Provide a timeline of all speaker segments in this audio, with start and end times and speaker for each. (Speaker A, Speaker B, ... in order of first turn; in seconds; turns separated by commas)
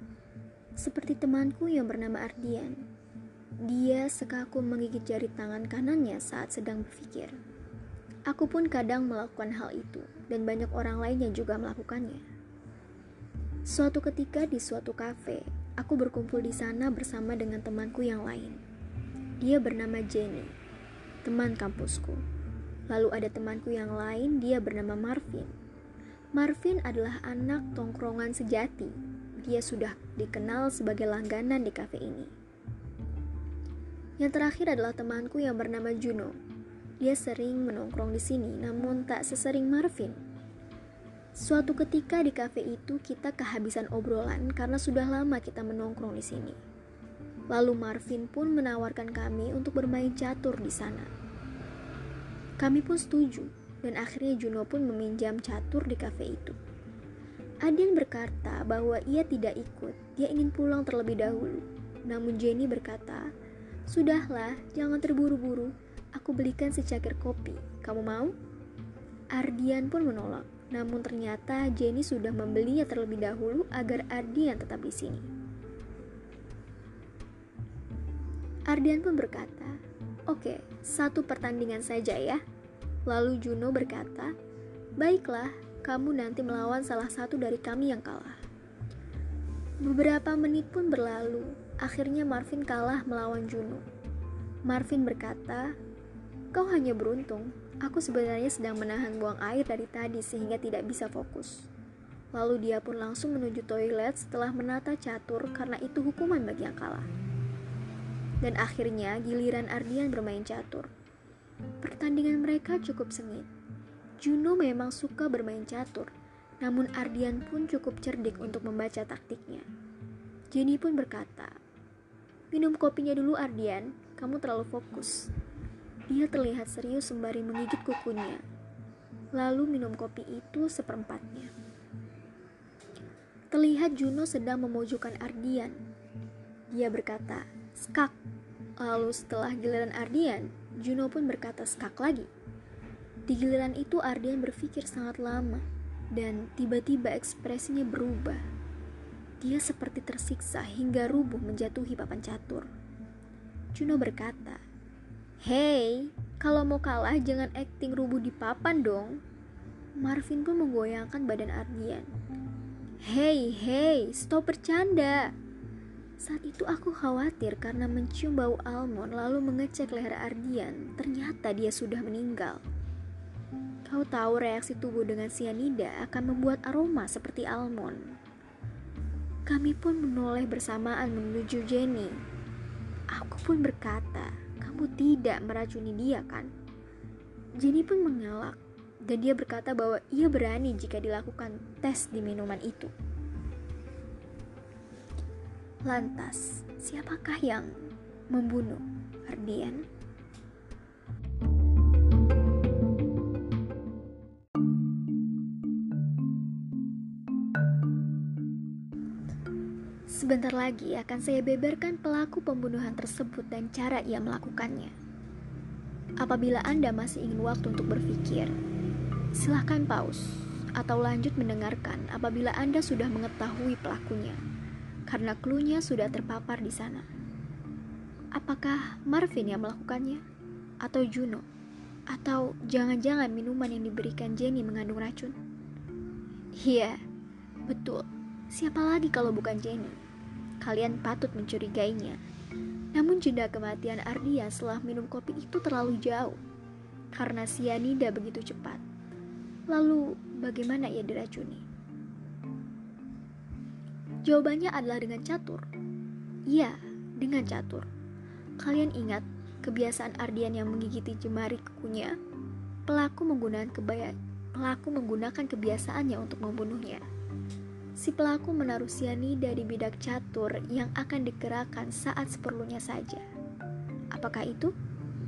Speaker A: 0.8-2.8, Speaker A: 3.6-7.4, Speaker A: 8.3-12.2, Speaker A: 13.7-18.6, Speaker A: 19.4-20.5, Speaker A: 21.2-22.2, Speaker A: 22.9-25.5, Speaker A: 26.4-32.3, Speaker A: 34.2-36.4, Speaker A: 37.0-40.2, Speaker A: 41.4-46.6, Speaker A: 47.5-51.1, Speaker A: 52.6-56.6, Speaker A: 57.6-63.3, Speaker A: 63.9-68.3, Speaker A: 69.3-75.3, Speaker A: 78.7-82.4, Speaker A: 83.0-84.3, Speaker A: 85.0-88.4, Speaker A: 89.8-93.8, Speaker A: 94.7-95.7, Speaker A: 96.5-101.7, Speaker A: 102.3-107.1, Speaker A: 108.4-110.9, Speaker A: 111.8-113.5, Speaker A: 114.2-119.7, Speaker A: 120.5-121.6, Speaker A: 122.5-125.3, Speaker A: 126.1-128.4, Speaker A: 129.3-131.5, Speaker A: 133.5-135.8, Speaker A: 136.7-138.2, Speaker A: 138.8-142.3, Speaker A: 143.3-148.4, Speaker A: 149.4-152.7, Speaker A: 153.7-154.6, Speaker A: 155.4-159.2, Speaker A: 160.0-162.1, Speaker A: 163.0-165.3, Speaker A: 166.2-172.6, Speaker A: 173.9-178.1, Speaker A: 179.5-182.2, Speaker A: 183.1-186.5, Speaker A: 187.6-192.9, Speaker A: 195.8-197.7, Speaker A: 198.3-199.8, Speaker A: 210.1-214.9, Speaker A: 216.2-218.5, Speaker A: 219.3-224.4, Speaker A: 225.1-227.1, Speaker A: 228.3-230.2, Speaker A: 230.8-231.4, Speaker A: 232.1-235.4, Speaker A: 236.6-237.0, Speaker A: 237.7-240.0, Speaker A: 240.6-242.2, Speaker A: 242.9-246.4, Speaker A: 247.1-248.8, Speaker A: 249.7-251.7, Speaker A: 254.2-255.7, Speaker A: 256.5-257.9, Speaker A: 258.6-262.1, Speaker A: 262.9-267.1, Speaker A: 268.0-273.2, Speaker A: 274.1-274.7